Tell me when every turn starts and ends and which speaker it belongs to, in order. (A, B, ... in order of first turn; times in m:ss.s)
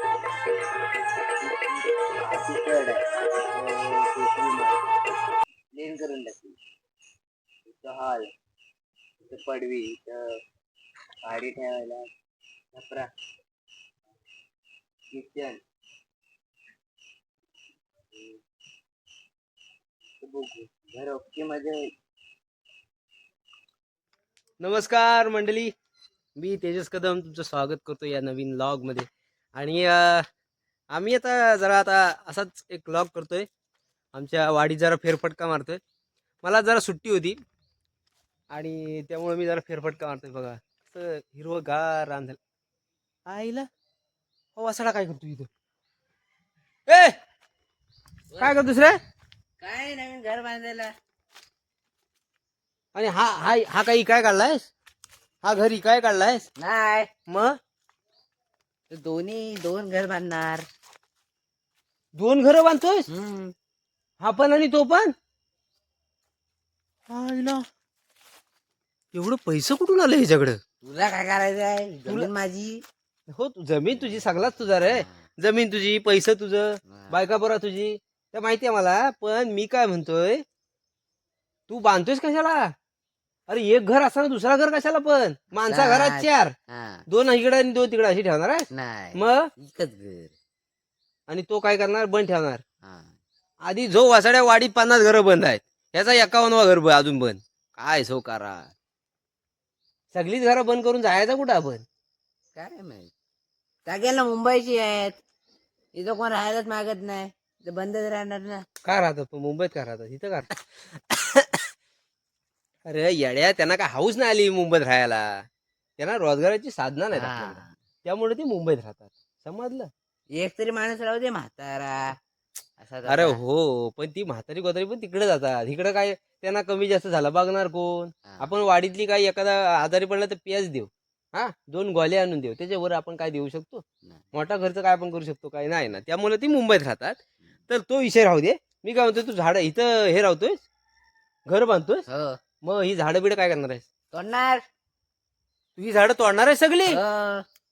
0:01.4-0:04.9 A
0:05.8-0:06.6 A
0:07.7-0:08.3 A
0:09.3-0:10.3 A
0:11.2-0:12.1 A
0:12.8-0:13.1 A
0:15.1-0:15.6 A
0:20.2-0:21.9 A
0:24.6-0:25.7 B
0:26.4-0:30.2 B
0:30.9-0:33.5 B
0:34.1-0:35.8 B
0:36.4-0:37.4 B
0:38.5-0:42.4 B
0:43.3-0:43.7 B
0:44.6-0:45.5 B
0:46.9-0:47.2 B
0:48.3-0:48.6 A
0:48.4-0:49.0 B
0:49.6-0:50.9 A
0:52.9-0:54.7 B
0:55.4-0:56.4 B
0:56.6-0:57.1 A
0:57.3-0:57.6 B
0:58.9-1:00.6 A
1:02.1-1:03.1 B
1:03.1-1:03.5 A
1:04.2-1:05.1 B
1:07.1-1:07.6 B
1:09.1-1:10.6 B
1:10.8-1:12.8 A
1:13.3-1:20.4 B
1:14.8-1:15.2 A
1:16.9-1:17.2 A
1:21.7-1:22.7 B
1:23.5-1:26.5 B
1:25.6-1:27.0 A
1:27.1-1:29.5 B
1:28.7-1:30.3 A
1:31.3-1:32.6 B
1:32.8-1:33.1 A
1:33.6-1:38.7 B
1:40.1-1:41.8 B
1:42.5-1:43.1 A
1:43.8-1:45.2 A
1:45.9-1:48.6 A
1:48.8-1:50.5 B
1:51.1-1:51.6 B
1:52.8-1:55.4 B
1:56.0-1:59.9 B
1:57.1-1:57.7 A
2:00.4-2:02.2 A
2:02.8-2:03.4 A
2:03.0-2:20.6 B
2:21.5-2:22.0 B
2:22.1-2:22.4 A
2:22.6-2:23.9 B
2:24.1-2:24.6 A
2:25.8-2:27.0 B
2:26.9-2:27.4 A